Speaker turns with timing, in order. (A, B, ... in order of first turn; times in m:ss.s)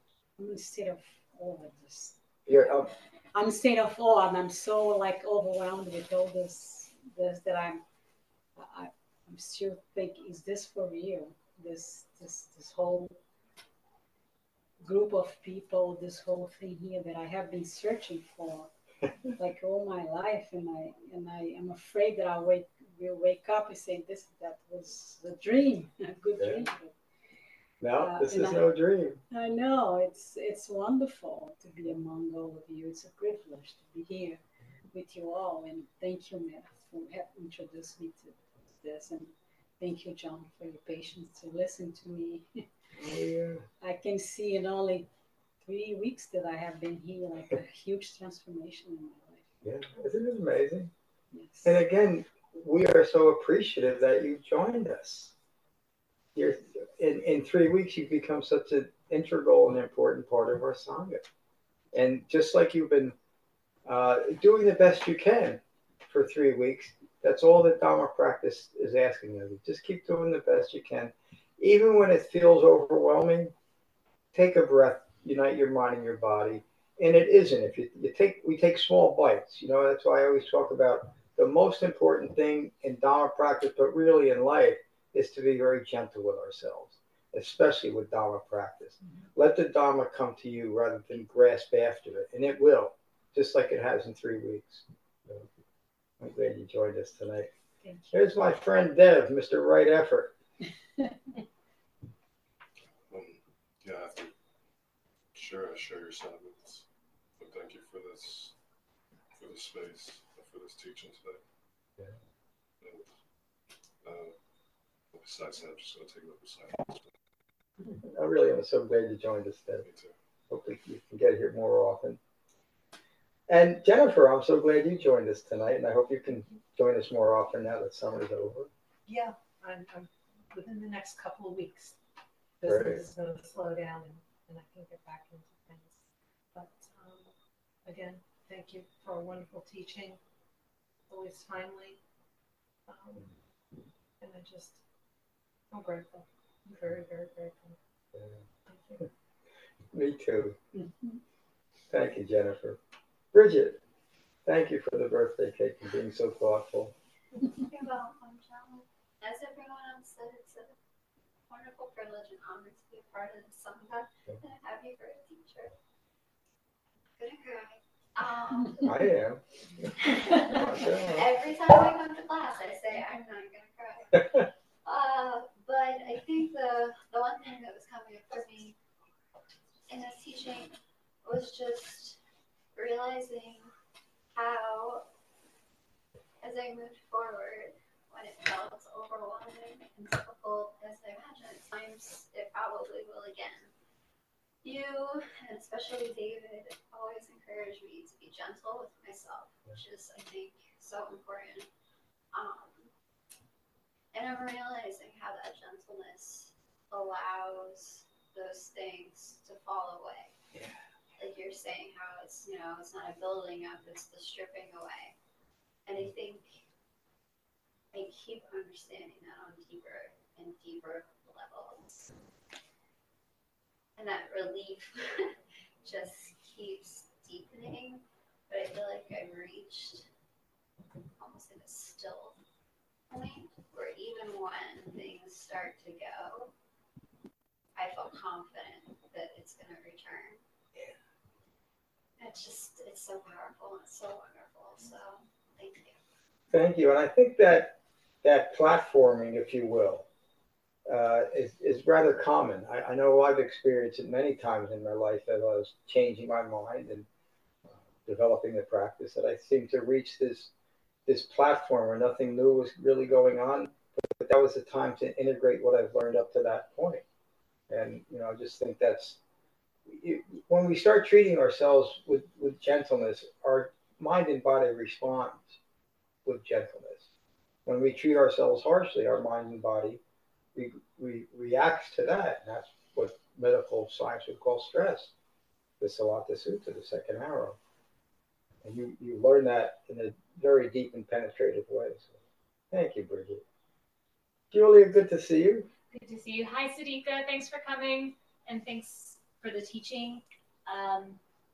0:00.4-0:02.2 A
0:02.5-0:02.9 B
0:03.3-0:07.8 A
0:08.6-0:13.2 A
0:14.8-0:18.7 A
0:19.4-0:26.9 A
0:26.4-0:26.7 B
0:27.8-0:29.2 B
0:28.0-0:28.6 A
0:29.3-0:34.4 A
0:34.9-0:42.6 A
0:43.0-0:43.6 B
0:43.8-0:45.1 A
0:45.6-0:49.5 A
0:49.6-0:50.9 B
0:51.3-0:51.8 A
0:51.6-0:55.3 B
0:56.4-1:01.2 B
1:01.9-1:03.2 B
1:03.9-1:13.5 B
1:14.3-1:35.5 B
1:36.2-1:37.5 B
1:37.8-1:38.1 A
1:38.1-1:40.3 B
1:43.1-1:44.3 C
1:45.3-1:46.8 C
1:47.4-1:48.6 C
1:49.4-1:51.4 C
1:52.8-1:53.1 C
1:54.0-1:54.3 C
1:55.1-1:57.1 C
1:58.0-1:59.8 B
1:59.8-2:00.1 C
2:00.5-2:02.2 B
2:03.5-2:08.7 B
2:09.1-2:12.0 D
2:12.6-2:17.3 D
2:12.7-2:13.0 B
2:17.8-2:20.2 D
2:21.1-2:22.0 D
2:22.9-2:23.3 D
2:24.2-2:24.8 D
2:25.7-2:27.8 D
2:28.7-2:29.1 D
2:29.9-2:30.6 B
2:31.9-2:32.8 B
2:33.3-2:33.8 B
2:34.5-2:36.9 B
2:37.5-2:40.8 E
2:41.5-2:45.7 E
2:47.2-2:49.1 E
2:48.8-2:49.4 B
2:50.2-2:58.8 E
2:50.6-2:51.3 B
2:59.9-3:00.7 E
3:01.2-3:02.2 E
3:02.8-3:03.7 E
3:04.4-3:05.1 E
3:06.4-3:13.7 E
3:14.6-3:21.7 E
3:22.3-3:22.9 E
3:24.1-3:30.3 E
3:31.2-3:35.2 E
3:35.9-3:36.6 E
3:37.9-3:42.1 E
3:44.0-3:50.1 E
3:51.2-3:52.4 E
3:53.1-3:56.5 E
3:57.8-4:00.4 E
4:02.2-4:06.0 E
4:06.5-4:10.1 B
4:10.9-4:17.1 B
4:17.7-4:20.5 B
4:21.1-4:27.0 B
4:27.7-4:29.2 B
4:29.9-4:35.6 B
4:36.2-4:37.0 B
4:37.7-4:40.0 B
4:40.6-4:45.1 B
4:45.8-4:47.6 B
4:48.6-4:52.2 B
4:52.7-4:53.4 B
4:54.5-4:55.7 B
4:55.9-5:01.2 F